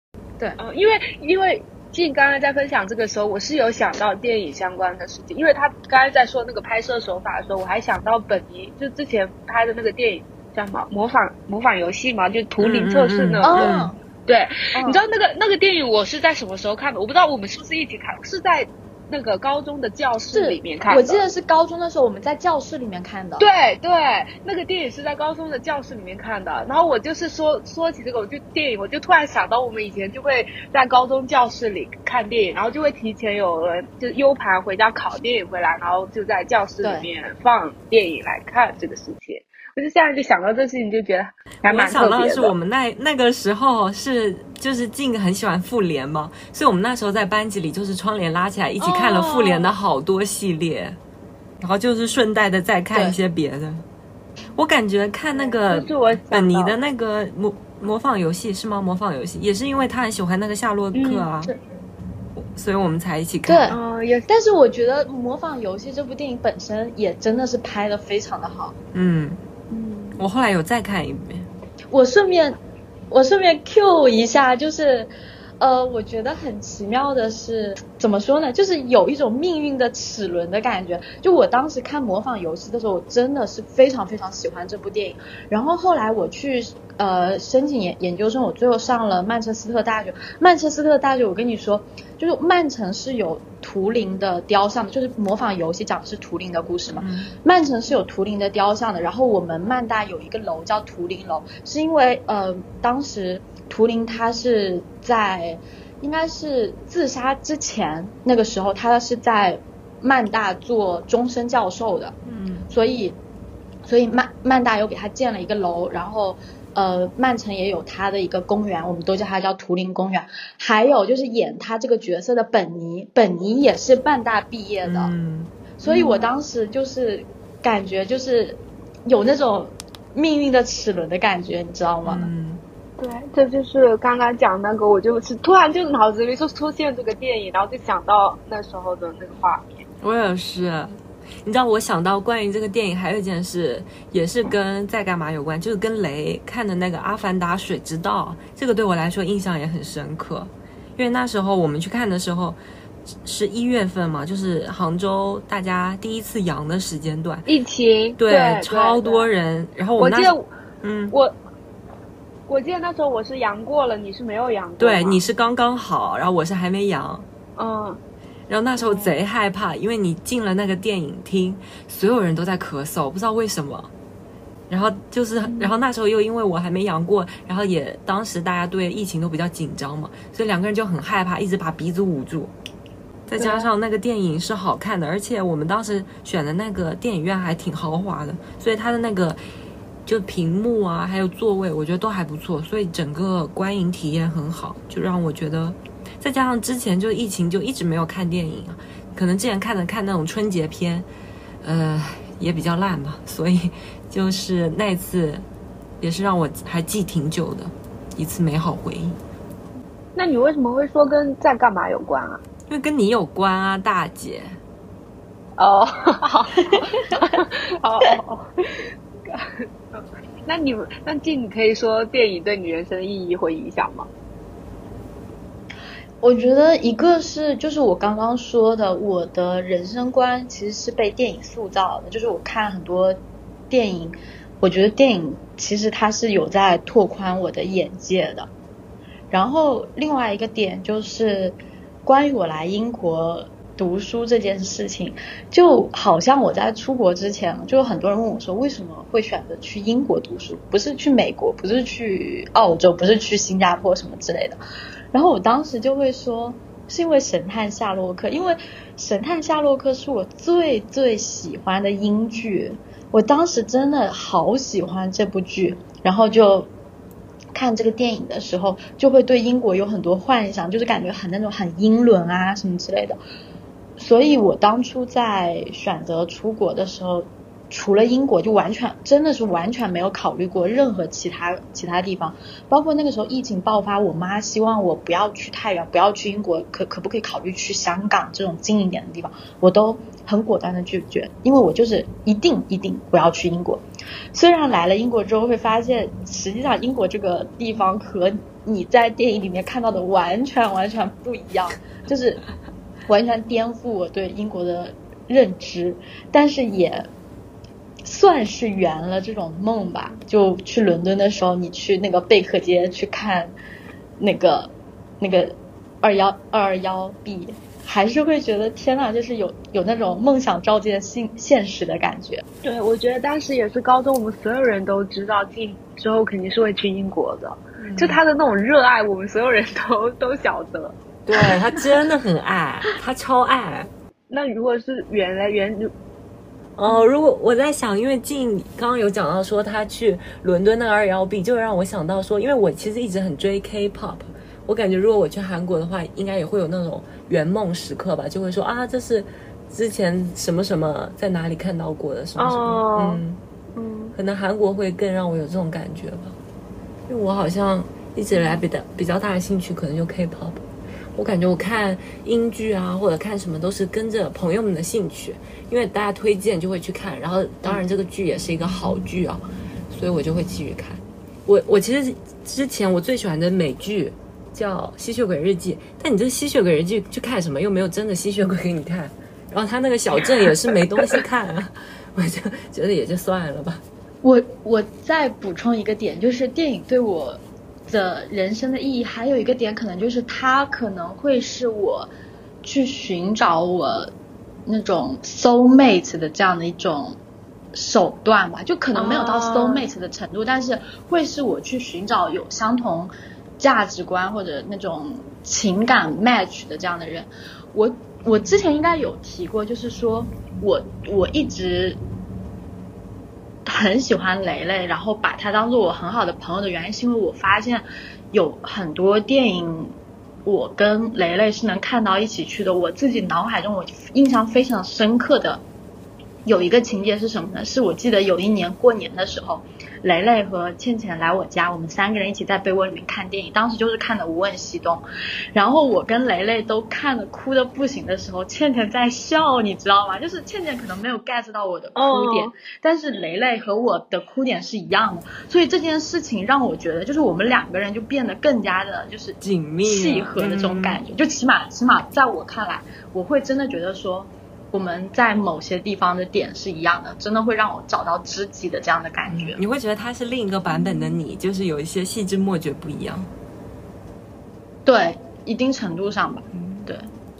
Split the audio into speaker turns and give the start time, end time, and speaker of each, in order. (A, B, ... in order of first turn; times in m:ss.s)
0:00.6-0:13.7 A
0:12.6-0:13.9 B
0:13.4-0:14.0 C
0:14.3-0:21.2 A
0:14.8-0:15.0 C
0:20.3-0:23.4 C
0:23.4-0:42.5 A
0:41.6-0:51.0 B
0:48.8-0:49.7 A
0:51.6-0:53.8 B
0:54.5-1:01.5 B
0:55.3-0:56.8 A
1:00.9-1:01.3 A
1:02.4-1:03.7 B
1:03.4-1:08.8 C
1:03.7-1:04.3 A
1:08.9-1:09.4 B
1:09.7-1:10.2 A
1:10.2-1:11.5 B
1:11.9-1:12.6 C
1:13.1-1:52.1 C
1:37.0-1:37.3 B
1:52.2-1:52.6 B
1:52.7-1:53.2 C
1:53.8-2:05.1 C
2:04.8-2:05.5 B
2:05.8-2:12.3 C
2:05.8-2:06.3 A
2:12.0-2:12.6 B
2:13.0-2:19.8 A
2:20.0-2:32.6 B
2:33.2-2:37.5 B
2:37.4-2:39.3 A
2:38.2-2:41.1 B
2:40.0-2:40.5 A
2:42.5-2:45.2 A
2:44.8-2:47.2 B
2:47.6-2:48.0 A
2:48.5-2:53.9 B
2:48.8-2:49.1 A
2:54.7-3:02.5 B
2:55.4-2:55.7 A
3:03.3-3:09.4 B
3:10.0-3:21.1 B
3:21.6-3:25.4 B
3:26.0-3:29.2 B
3:30.1-3:32.4 A
3:32.7-3:34.6 B
3:35.6-3:44.1 A
3:46.2-3:53.2 C
3:53.7-3:58.5 C
3:59.3-4:14.6 C
4:15.1-4:26.7 C
4:27.5-4:33.2 C
4:34.0-4:53.8 C
4:54.3-5:02.4 C
5:03.1-5:07.1 C
5:08.0-5:13.5 C
5:14.2-5:22.4 C
5:22.6-5:31.0 A
5:27.8-5:28.2 B
5:31.3-5:33.9 B
5:34.3-5:35.9 A
5:36.8-5:53.4 B
5:52.4-5:53.2 A
5:53.7-5:54.1 A
5:54.1-5:56.4 B
5:57.1-6:00.6 B
6:01.1-6:23.8 B
6:24.2-6:32.1 C
6:32.6-6:34.1 C
6:34.6-6:37.2 C
6:37.7-6:52.0 C
6:38.9-6:39.9 A
6:53.6-6:59.9 C
7:00.4-7:05.6 C
7:06.4-7:15.0 C
7:15.5-7:39.6 C
7:22.0-7:22.5 A
7:29.4-7:31.0 B
7:39.3-7:43.3 B
7:44.8-7:47.1 C
7:46.5-7:46.9 B